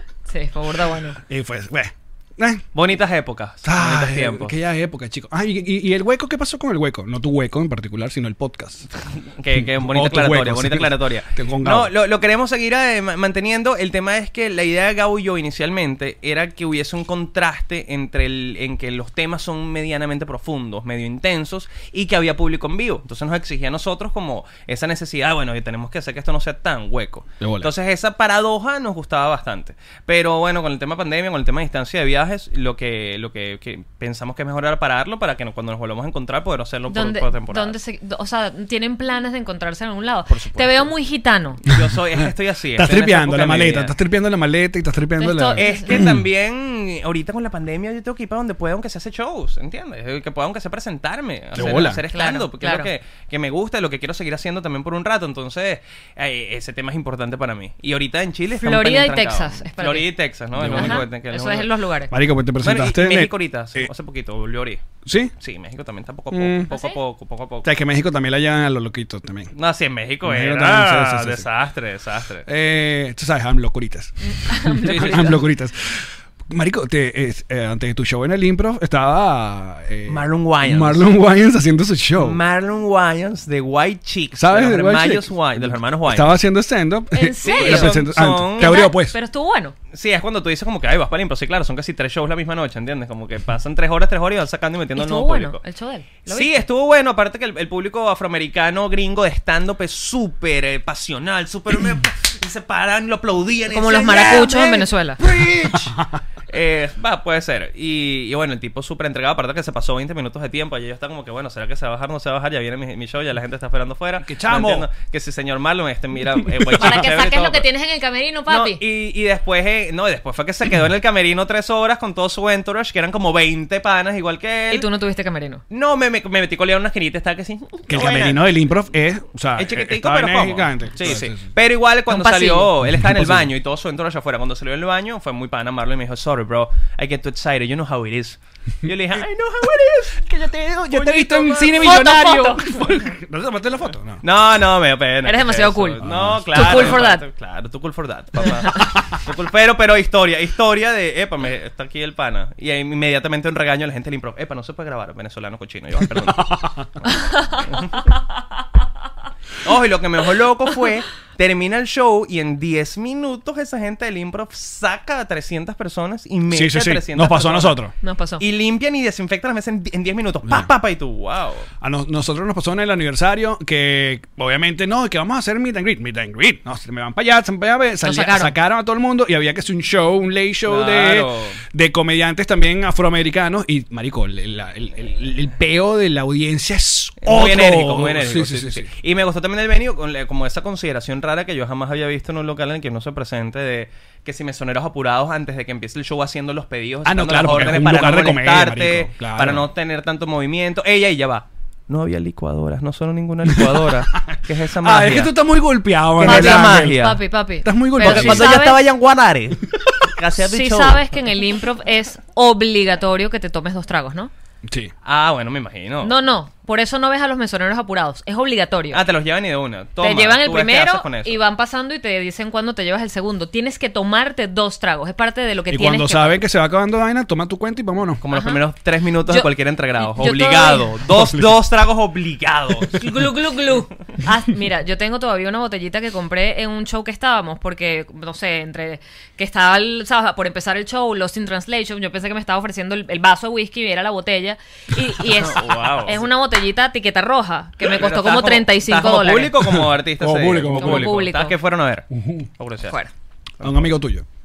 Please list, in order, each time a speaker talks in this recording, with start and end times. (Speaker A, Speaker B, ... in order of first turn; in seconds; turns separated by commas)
Speaker A: 0.3-1.2, Speaker B: 1.3-2.6, Speaker C: 2.7-4.5, Speaker B: 3.6-8.8, Speaker C: 9.0-37.8, Speaker B: 9.5-11.9, Speaker B: 27.4-27.7, Speaker A: 36.9-41.6, Speaker C: 40.3-40.9, Speaker C: 41.6-43.9, Speaker B: 42.7-46.2, Speaker A: 45.2-45.9, Speaker C: 45.6-61.7, Speaker B: 51.5-52.0, Speaker A: 52.1-52.9, Speaker A: 58.6-60.1, Speaker B: 60.5-61.1, Speaker A: 60.7-62.1, Speaker B: 62.1-63.9, Speaker C: 62.6-64.8, Speaker B: 65.0-65.3, Speaker C: 65.4-67.7, Speaker B: 66.3-66.7, Speaker A: 66.7-67.0, Speaker B: 67.6-69.5, Speaker C: 69.5-72.5, Speaker B: 70.2-71.5, Speaker B: 72.5-82.4, Speaker A: 74.3-75.3, Speaker C: 74.8-75.4, Speaker C: 80.1-81.1, Speaker C: 82.2-86.3, Speaker B: 84.3-89.2, Speaker A: 87.1-88.0, Speaker C: 87.4-88.9, Speaker A: 88.6-89.7, Speaker C: 89.9-95.6, Speaker A: 95.0-96.6, Speaker C: 96.2-106.0, Speaker A: 103.7-105.2, Speaker B: 105.3-105.9, Speaker C: 106.5-117.7, Speaker B: 114.2-114.9, Speaker B: 116.6-117.0, Speaker A: 116.7-118.8, Speaker C: 118.5-124.9, Speaker A: 124.7-125.6, Speaker C: 125.7-128.4, Speaker B: 127.9-131.4, Speaker C: 129.6-141.9, Speaker A: 132.1-132.7, Speaker B: 132.9-133.5, Speaker B: 140.3-144.2, Speaker A: 141.8-142.6, Speaker C: 144.2-158.1, Speaker A: 145.2-147.2, Speaker B: 146.0-147.0, Speaker B: 156.2-156.9, Speaker A: 157.1-157.6, Speaker C: 159.6-167.8, Speaker B: 166.5-167.9, Speaker A: 168.0-168.4, Speaker C: 168.4-171.7, Speaker B: 171.8-188.8, Speaker A: 178.0-178.5, Speaker C: 180.7-181.6, Speaker C: 187.2-205.3, Speaker B: 197.0-199.7, Speaker B: 203.4-207.1, Speaker C: 206.2-207.2, Speaker A: 206.2-208.8, Speaker B: 207.6-208.6, Speaker C: 208.0-211.1, Speaker A: 210.4-214.3, Speaker B: 214.7-214.9, Speaker C: 215.0-216.1, Speaker A: 216.0-219.0, Speaker C: 218.9-221.4, Speaker A: 220.0-226.4, Speaker B: 225.7-228.2, Speaker C: 228.2-233.2, Speaker A: 228.3-228.6, Speaker A: 230.0-230.9, Speaker B: 231.1-231.5, Speaker A: 232.9-249.5, Speaker C: 245.2-246.2, Speaker C: 247.8-252.1, Speaker B: 249.7-251.2, Speaker A: 250.7-251.5, Speaker B: 252.1-252.5, Speaker C: 252.6-252.9, Speaker C: 253.6-253.9, Speaker B: 253.6-254.2